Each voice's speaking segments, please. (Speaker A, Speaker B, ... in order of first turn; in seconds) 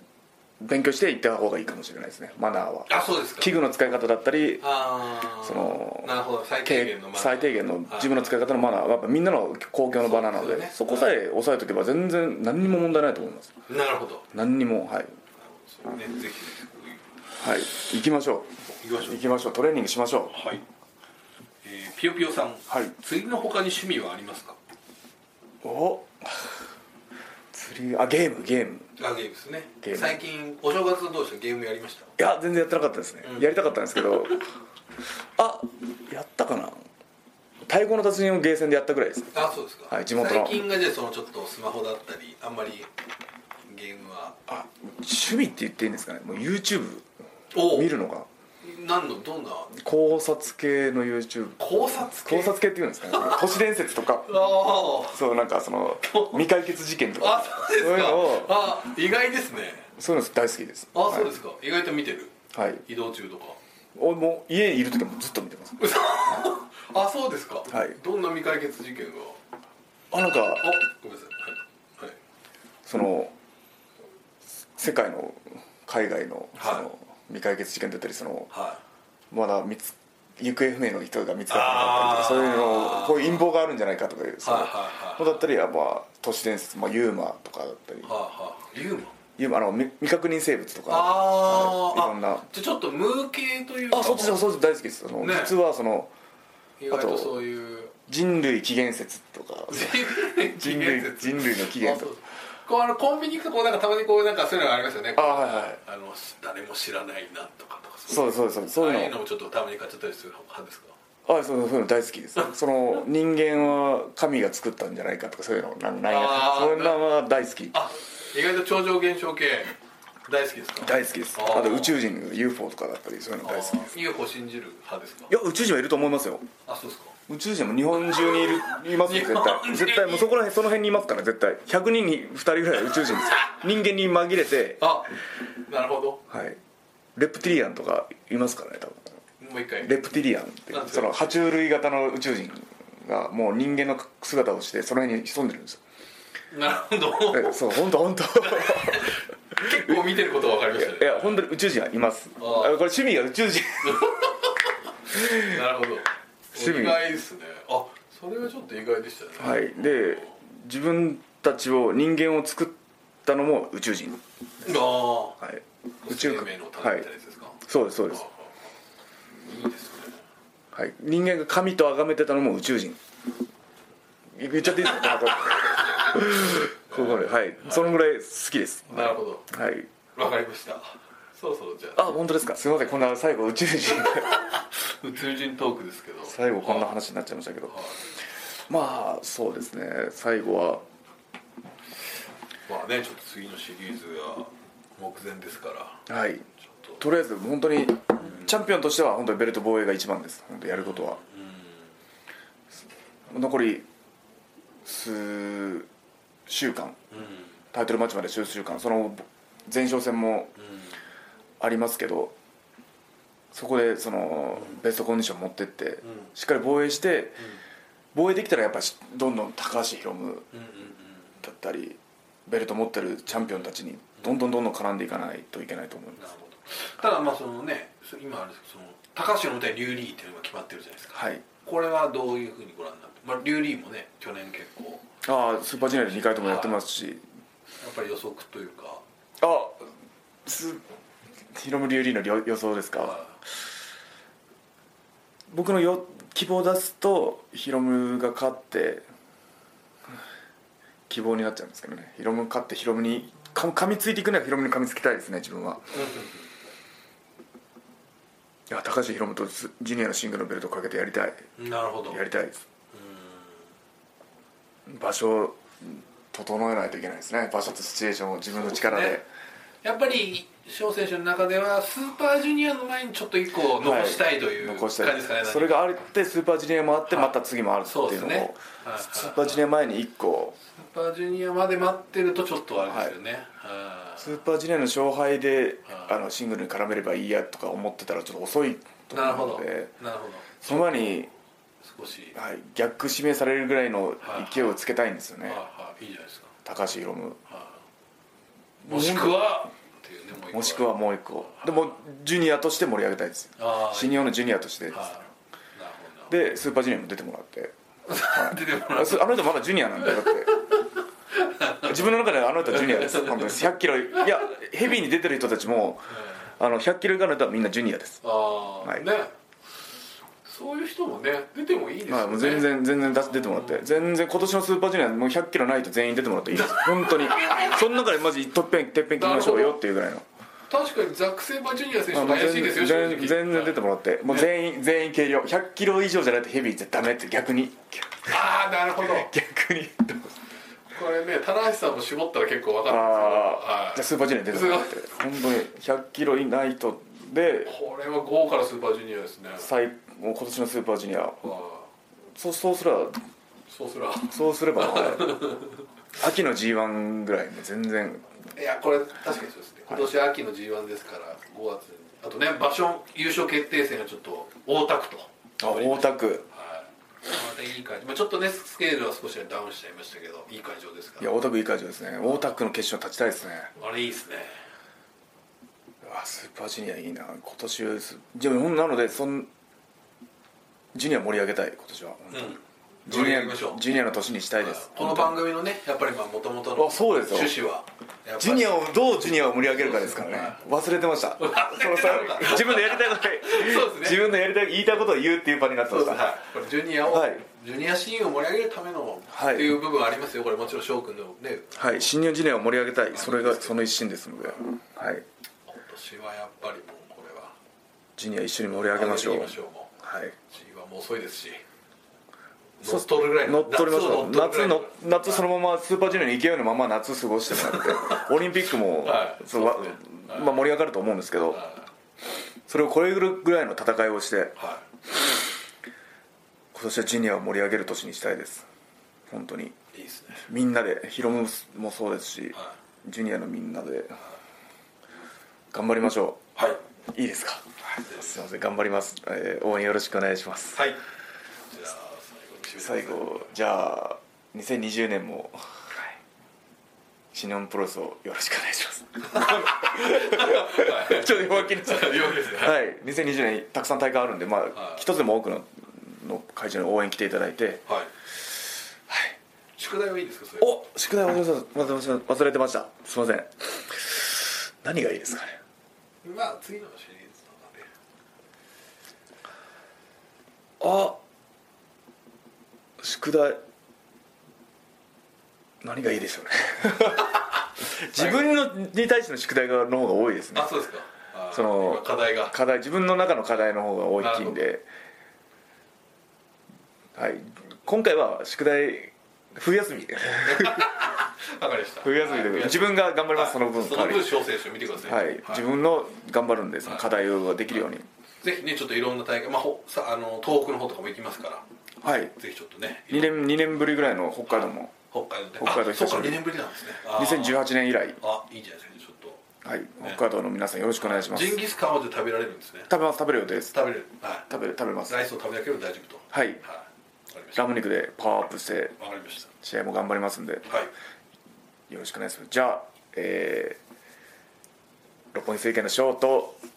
Speaker A: 0.6-4.8, 5.3-13.6, 14.3-15.2, 17.4-18.5, 19.0-20.3, 25.6-26.6, 27.5-28.9, 29.8-30.2, 32.2-34.4, 35.4-36.8, 37.6-39.4, 39.9-40.6, 44.5-48.3, 49.7-54.4, 55.1-58.6, 60.0-61.3, 62.5-62.8, 64.0-66.4, 67.7-68.0, 70.1-70.8, 72.8-73.3, 74.8-78.5, 79.3-88.1, 89.4-92.5, 93.9-96.1, 96.9-97.4, 98.1-102.1, 105.1-105.8, 108.1-109.1, 111.3-117.7, 120.8-124.0, 125.3-126.5, 127.3-134.9, 136.3-136.6, 137.2-139.0, 139.8-145.8, 147.3-150.1, 150.7-154.1, 155.1-155.6, 156.5-157.0, 159.4-167.1, 167.6-168.2, 170.7-173.0, 174.3-179.9, 181.9-184.4, 186.2-187.8, 188.7-190.8, 196.1-196.4, 197.0-201.2, 203.3-203.8, 204.8-205.9, 206.5-207.0, 207.7-210.5, 211.6-212.3, 213.5-217.4, 218.1-220.5, 221.4-226.2, 231.1-231.4, 235.2-237.2, 239.4-239.8, 240.4-240.8, 241.5-243.2, 245.5-249.0, 251.1-256.0, 258.7-261.5, 262.1-262.6, 264.9-269.2, 273.8-280.6, 282.8-283.1, 284.2-289.9, 290.6-291.3, 292.3-295.6, 296.6-297.4, 298.8-299.6, 300.5-305.1, 306.3-307.7, 308.2-310.6, 311.8-318.2, 322.1-330.2, 332.1-338.4, 339.0-340.4, 342.9-347.7, 349.6-351.4, 352.3-353.1, 354.3-355.4, 356.1-358.3, 365.6-366.4, 371.2-373.7, 376.0-379.5, 380.9-382.5, 383.1-385.4, 386.8-387.6, 388.4-396.4, 397.1-397.4, 399.3-399.8, 401.8-405.2, 408.2-410.3, 412.8-421.6, 422.7-424.6, 426.7-428.7, 429.3-429.8, 430.3-434.2, 435.7-436.4, 437.1-440.8, 442.8-445.6, 447.3-457.8, 459.1-459.3, 460.6-465.6, 470.8-471.2, 473.0-473.6, 475.8-480.7, 481.5-484.8, 487.1-490.9, 492.0-494.4, 495.0-498.0, 502.0-502.3, 503.1-504.9, 505.6-506.5, 507.1-508.2, 509.6-511.6, 512.9-513.8, 514.5-515.2, 516.3-516.6, 517.5-519.0, 519.5-520.6, 521.9-523.8, 525.3-526.6
Speaker B: 2.9-3.5, 4.6-8.4, 10.0-11.1, 13.7-14.3, 15.4-17.0, 18.7-19.2, 20.3-20.6, 21.6-24.6, 29.0-32.1, 33.2-33.5, 39.3-42.9, 43.7-44.4, 47.5-47.9, 48.6-49.8, 51.6-53.6, 54.2-55.2, 56.0-56.4, 57.2-59.9, 60.9-63.6, 65.8-69.4, 70.5-72.2, 76.6-76.9, 78.5-78.8, 81.5-83.5, 84.4-85.4, 88.0-89.1, 90.9-94.4, 95.2-95.6, 96.8-97.9, 99.7-110.9, 116.0-117.0, 117.7-119.7, 120.3-122.0, 123.4-125.3, 126.7-127.2, 128.0-130.3, 134.8-135.2, 135.7-136.2, 139.4-139.9, 140.7-141.4, 146.5-147.8, 148.4-151.5, 152.4-152.8, 153.8-160.3, 164.6-165.4, 166.0-168.3, 169.4-170.2, 174.9-177.9, 178.9-179.5, 180.2-182.2, 184.0-186.9, 187.7-188.0, 192.7-196.1, 198.2-198.5, 200.7-201.8, 207.1-207.5, 210.6-210.9, 216.0-216.3, 220.5-221.3, 226.2-235.0, 235.8-236.8, 237.8-239.0, 243.0-243.3, 255.9-256.4, 261.6-262.2, 262.9-263.5, 268.5-269.2, 269.8-275.8, 277.1-277.3, 277.8-279.6, 280.6-284.3, 285.9-286.1, 289.1-291.1, 291.8-292.4, 294.2-294.8, 295.4-296.5, 297.5-297.8, 298.9-300.9, 301.5-302.0, 303.6-304.4, 304.9-306.3, 308.1-309.4, 310.0-312.1, 312.7-313.5, 316.1-316.5, 318.2-319.3, 320.4-324.1, 326.5-327.9, 329.1-329.8, 330.7-334.5, 338.3-339.3, 340.9-345.1, 347.6-349.7, 351.4-351.9, 353.7-355.8, 358.5-371.4, 373.8-374.5, 382.3-383.9, 384.6-388.9, 389.7-390.6, 391.4-394.2, 395.9-402.1, 403.1-404.6, 405.7-407.5, 408.9-409.9, 410.5-411.6, 412.8-415.4, 417.6-418.2, 419.0-420.6, 421.5-421.9, 424.6-424.8, 429.9-430.4, 436.6-436.8, 437.9-438.4, 440.7-441.0, 441.7-443.4, 449.3-452.8, 454.8-455.0, 459.8-460.8, 466.2-467.9, 478.1-478.4, 480.5-482.5, 484.2-484.6, 490.4-495.6, 498.4-501.6, 502.4-503.4, 504.5-507.6, 508.2-509.4, 511.0-512.9, 513.7-514.5, 515.1-517.6, 519.0-519.5